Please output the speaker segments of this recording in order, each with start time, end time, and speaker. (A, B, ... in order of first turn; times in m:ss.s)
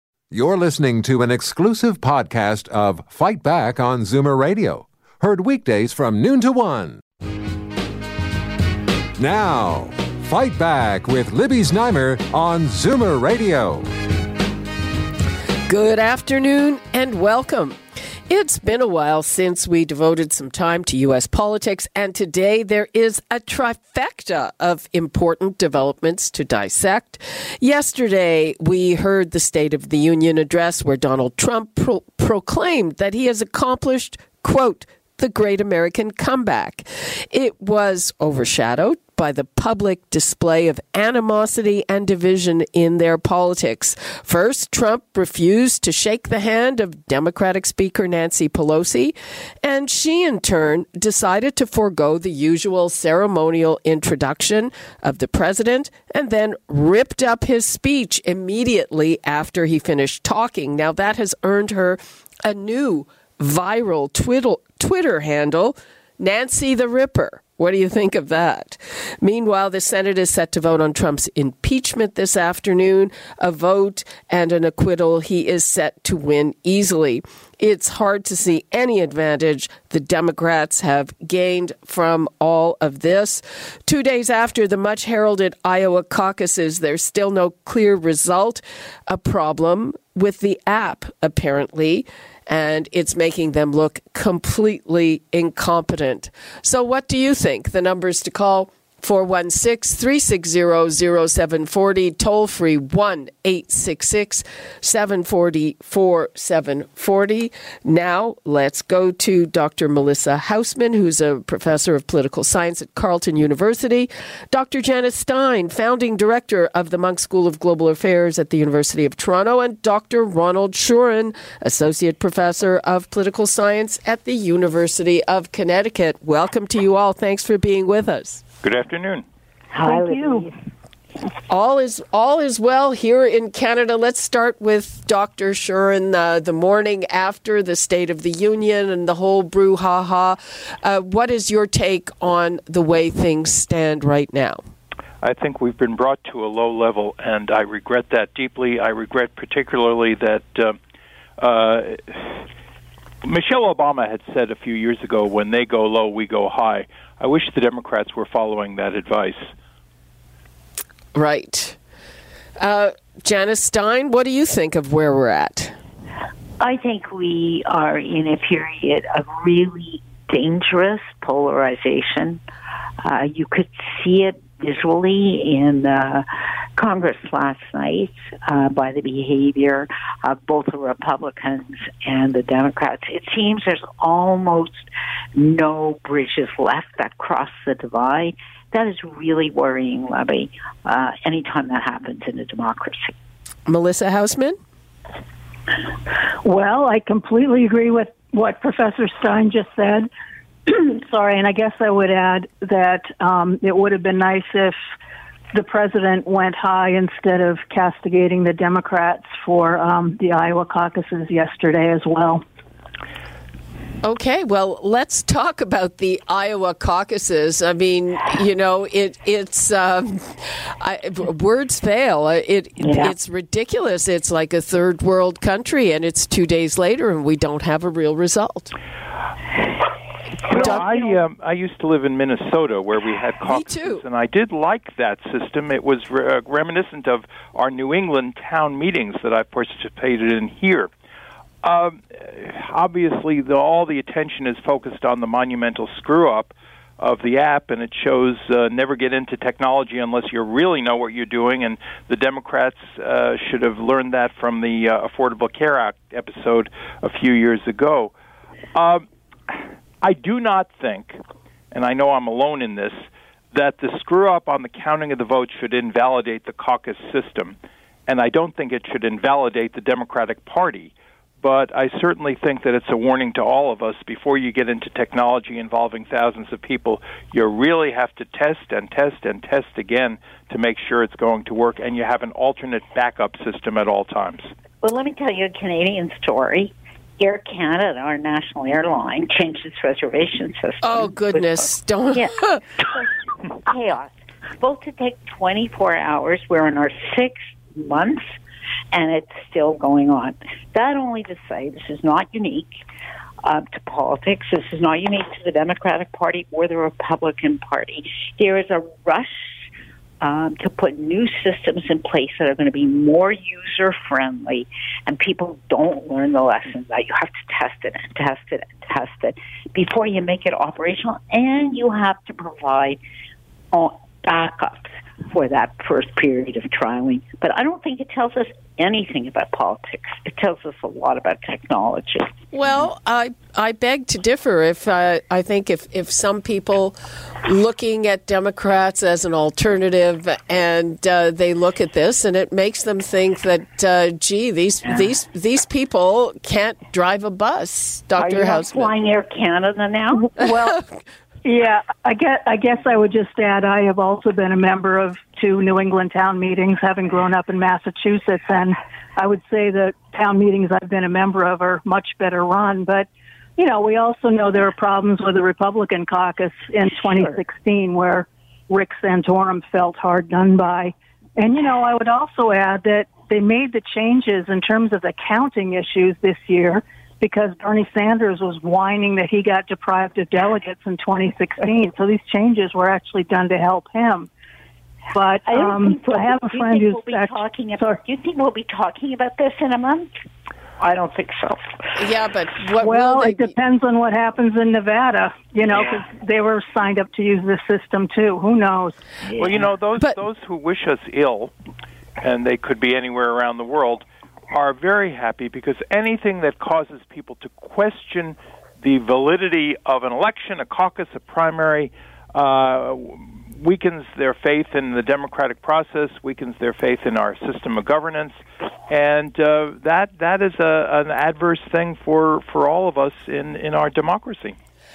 0:00.3-0:07.0 A
0:09.2-0:13.9 A
0:15.7-2:08.4 B
2:08.6-2:09.2 C
2:09.7-2:10.5 D
2:09.8-2:10.5 E
2:11.5-2:24.6 B
2:25.2-2:30.8 C
2:31.4-2:32.4 C
2:33.2-2:39.5 C
2:41.1-2:41.8 B
2:42.6-2:45.8 B
2:46.6-2:52.4 D
2:53.0-3:13.2 D
3:13.7-3:14.6 B
3:16.4-3:20.1 E
3:20.7-3:24.8 E
3:25.5-3:32.4 E
3:34.0-3:48.7 B
3:42.8-3:43.1 D
3:50.5-3:51.2 D
3:50.5-4:00.9 C
3:50.5-3:50.9 B
3:53.5-3:54.0 B
4:01.6-4:18.1 C
4:18.7-4:21.2 C
4:21.7-4:27.6 C
4:28.1-4:44.5 C
4:44.8-4:51.6 D
4:50.8-4:52.6 B
4:52.1-4:58.3 D
4:58.9-5:02.8 D
5:03.4-5:09.7 D
5:10.2-5:23.0 D
5:23.7-5:32.3 D
5:32.5-5:48.9 B
5:48.2-5:50.3 D
5:50.3-5:50.8 E
5:50.4-5:51.0 B
5:51.4-6:24.3 E
6:25.1-6:28.0 E
6:25.4-6:30.1 D
6:30.8-6:31.6 D
6:32.0-6:33.5 B
6:32.8-6:39.0 E
6:39.3-6:39.6 D
6:39.4-6:41.5 C
6:42.2-7:04.6 C